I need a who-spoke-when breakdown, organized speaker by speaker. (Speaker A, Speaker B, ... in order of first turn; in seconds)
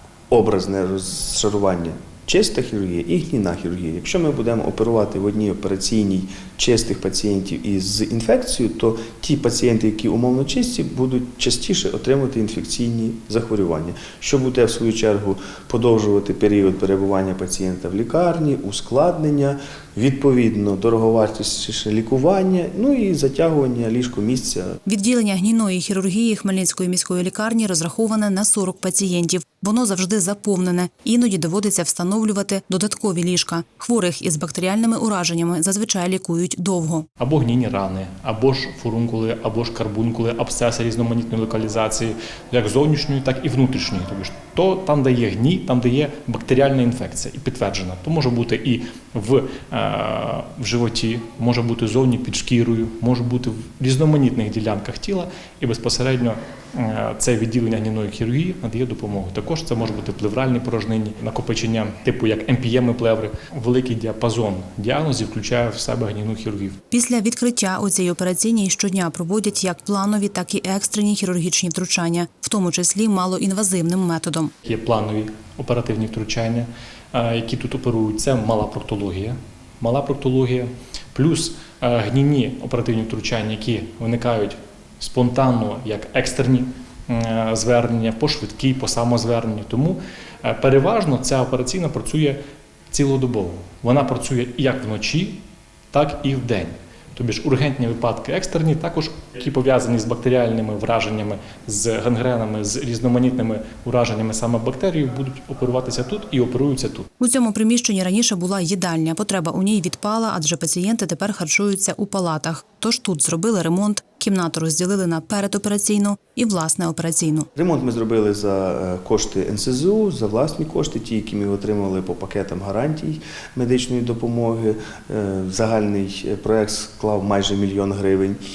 Speaker A: 0.3-24.8, 117.5-128.4
Speaker B: 24.9-37.1, 66.9-74.5, 107.2-117.5
Speaker C: 37.2-66.8, 74.6-92.4, 92.9-107.1